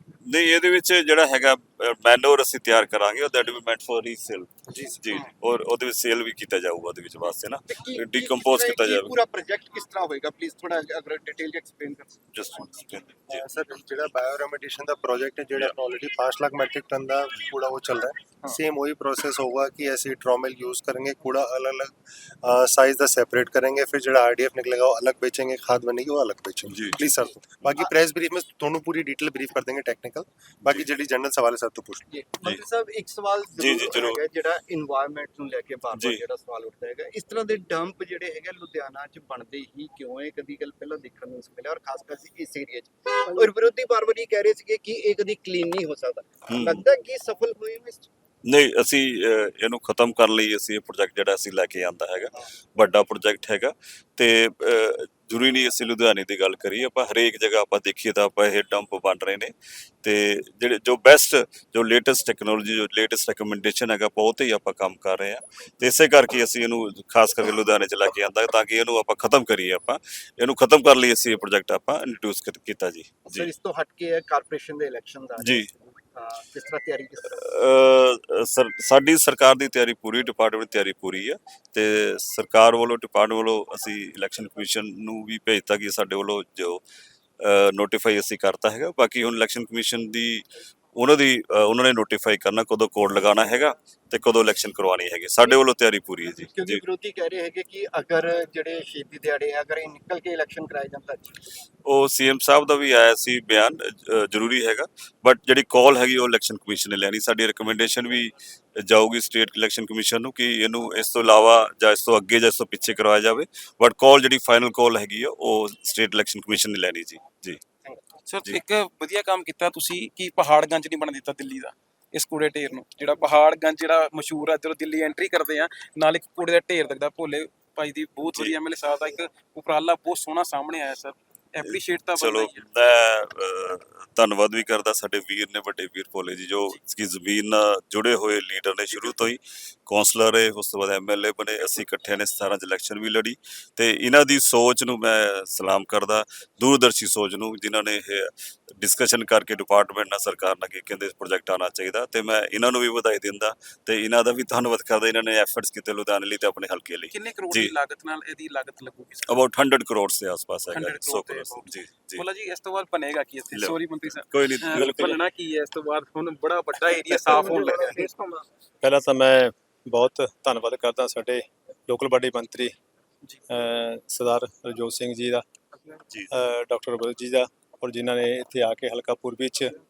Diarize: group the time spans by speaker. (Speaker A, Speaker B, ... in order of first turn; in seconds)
Speaker A: 0.2-9.1, 12.3-13.4, 26.7-27.0, 33.6-34.2, 35.9-36.2, 46.5-46.8, 48.5-73.5, 75.4-75.7, 77.3-86.8, 87.4-96.8, 101.8-117.6, 131.7-157.7, 159.3-162.2, 164.3-165.2
Speaker B: 7.7-12.3, 32.1-48.1, 73.3-77.4, 96.2-101.5, 167.3-168.0
Speaker C: 13.3-32.1
Speaker D: 118.3-132.6, 157.1-159.3, 160.7-168.4
Speaker E: 164.8-165.1, 168.8-172.7, 173.5-175.4, 176.3-179.7